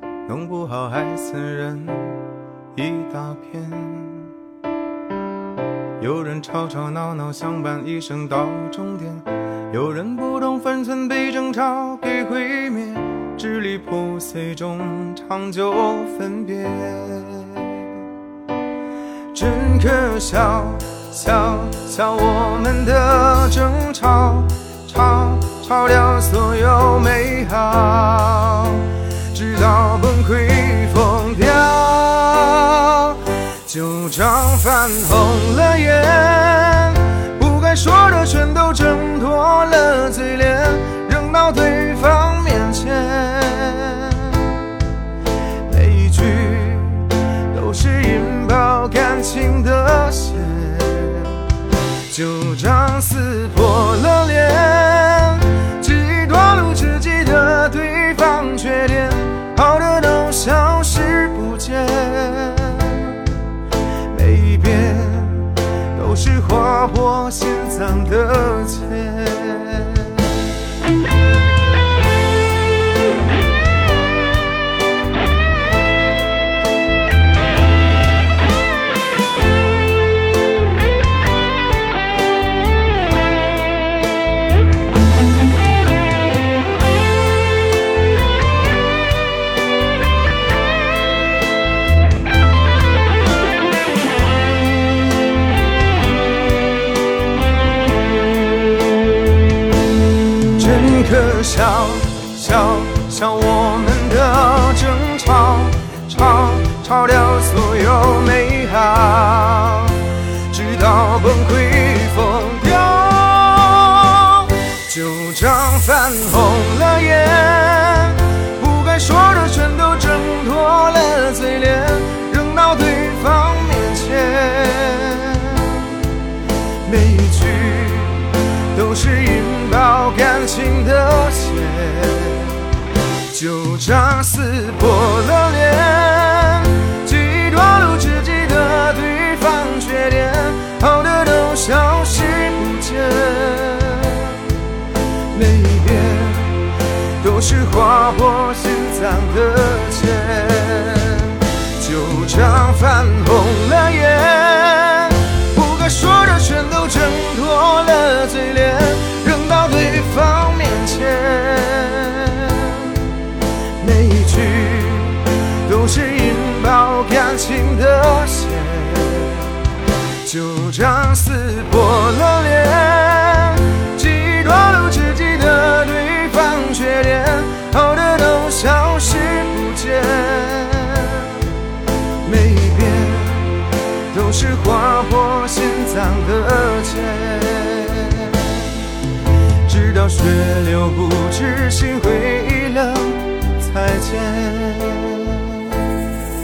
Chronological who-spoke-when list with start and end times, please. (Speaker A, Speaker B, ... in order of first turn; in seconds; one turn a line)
Speaker A: 0.2-2.2
Speaker A: 2.7-4.3
Speaker A: 6.0-17.8
Speaker A: 19.3-44.5
Speaker A: 45.7-51.3
Speaker A: 52.1-63.3
Speaker A: 64.1-70.2
Speaker A: 100.5-125.9
Speaker A: 126.8-132.6
Speaker A: 133.3-144.4
Speaker A: 145.3-146.6
Speaker A: 147.2-163.0
Speaker A: 163.8-169.5
Speaker A: 170.2-181.4
Speaker A: 182.2-188.7
Speaker A: 189.6-195.8